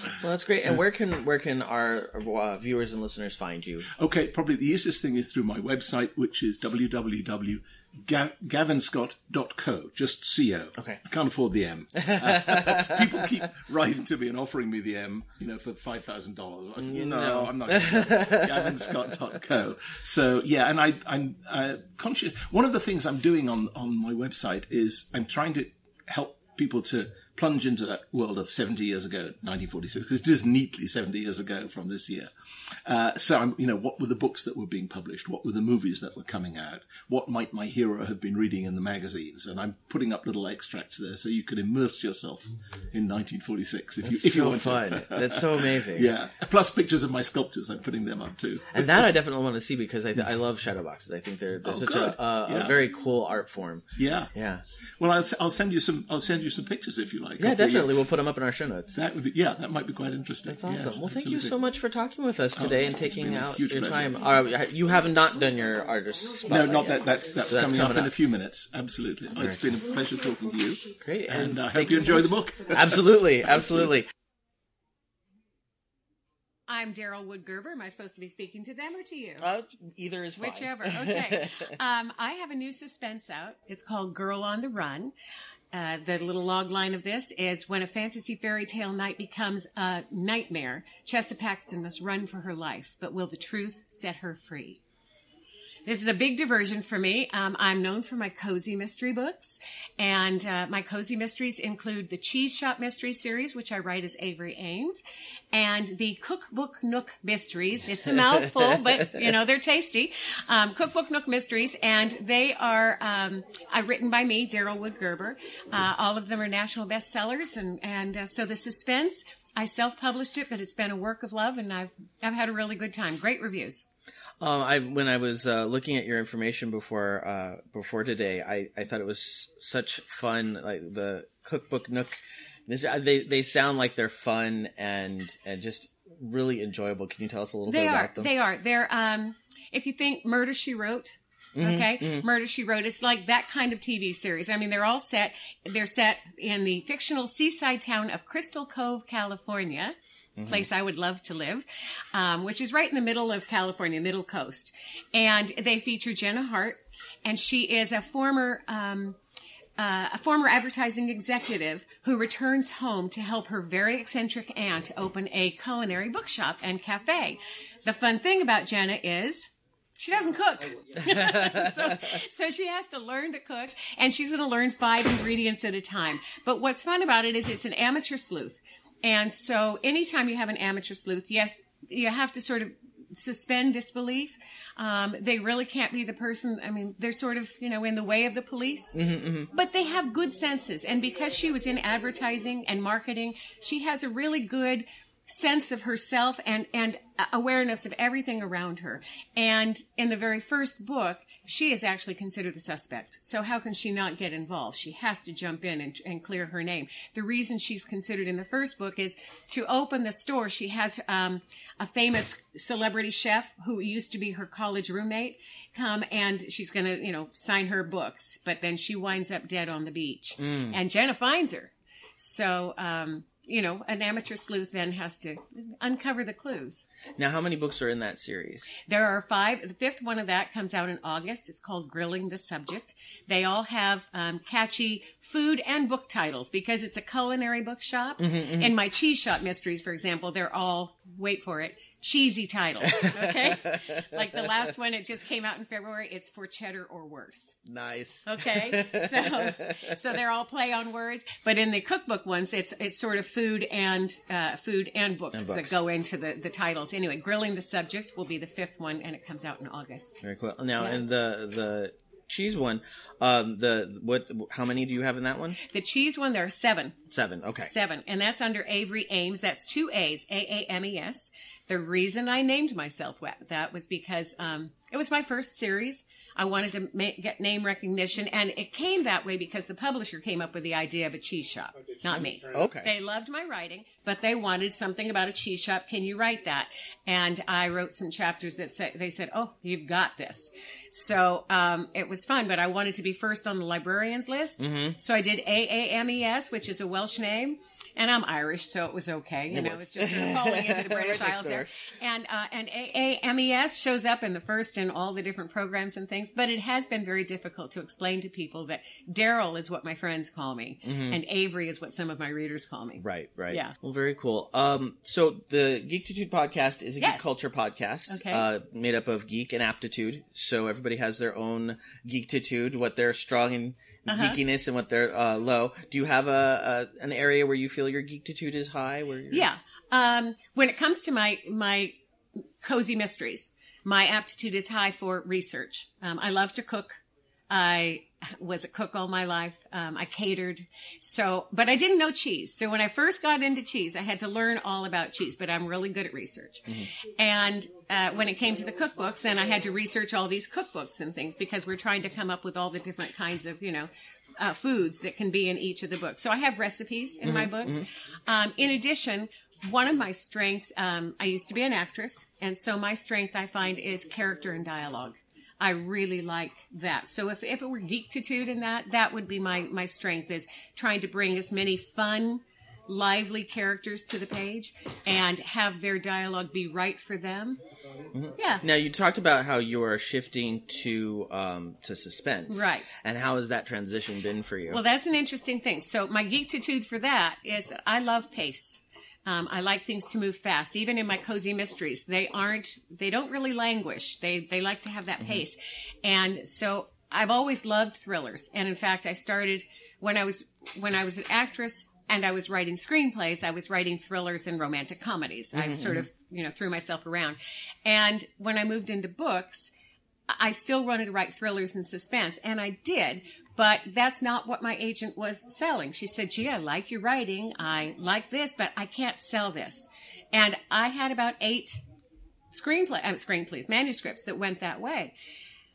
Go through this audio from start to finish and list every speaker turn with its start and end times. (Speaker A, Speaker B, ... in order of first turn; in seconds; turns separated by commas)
Speaker A: 0.2-3.9, Speaker B: 3.9-49.1, Speaker A: 12.0-13.0, Speaker A: 16.8-18.8, Speaker A: 44.0-46.1, Speaker A: 48.7-54.6, Speaker B: 51.6-52.9, Speaker B: 53.9-54.3, Speaker B: 55.0-58.0, Speaker A: 57.4-58.9, Speaker B: 58.9-61.6, Speaker A: 60.5-68.1, Speaker B: 62.6-64.2, Speaker B: 66.5-73.9, Speaker A: 71.0-74.1, Speaker C: 76.7-79.5, Speaker A: 79.4-81.7, Speaker C: 80.4-85.1, Speaker C: 85.7-94.8, Speaker C: 95.8-105.0, Speaker C: 105.5-123.8, Speaker A: 124.4-138.3, Speaker C: 137.7-149.9, Speaker A: 141.6-142.2, Speaker A: 150.4-150.7, Speaker C: 150.5-159.2, Speaker C: 159.8-169.5, Speaker C: 170.0-188.9, Speaker A: 171.0-171.9, Speaker A: 188.9-189.5, Speaker C: 189.5-226.8, Speaker A: 220.4-220.8, Speaker A: 227.2-228.7, Speaker C: 228.9-247.6, Speaker A: 238.2-238.7, Speaker A: 242.8-244.6, Speaker A: 247.7-249.9, Speaker C: 248.2-260.2, Speaker A: 255.3-255.8, Speaker A: 260.2-265.6, Speaker C: 265.6-267.0, Speaker A: 267.1-267.7, Speaker C: 267.6-313.7, Speaker A: 282.5-282.9, Speaker A: 294.6-295.0, Speaker A: 299.5-301.7, Speaker A: 310.8-311.2, Speaker A: 313.0-329.5, Speaker C: 317.0-317.3, Speaker C: 318.1-318.4, Speaker C: 324.1-324.4, Speaker C: 329.3-332.0, Speaker C: 332.6-337.0, Speaker C: 337.5-377.6, Speaker A: 357.2-357.9, Speaker A: 378.1-384.8, Speaker C: 378.4-378.6, Speaker C: 382.5-382.9, Speaker C: 384.7-409.7, Speaker A: 405.5-406.1, Speaker C: 410.3-421.8, Speaker C: 422.5-425.1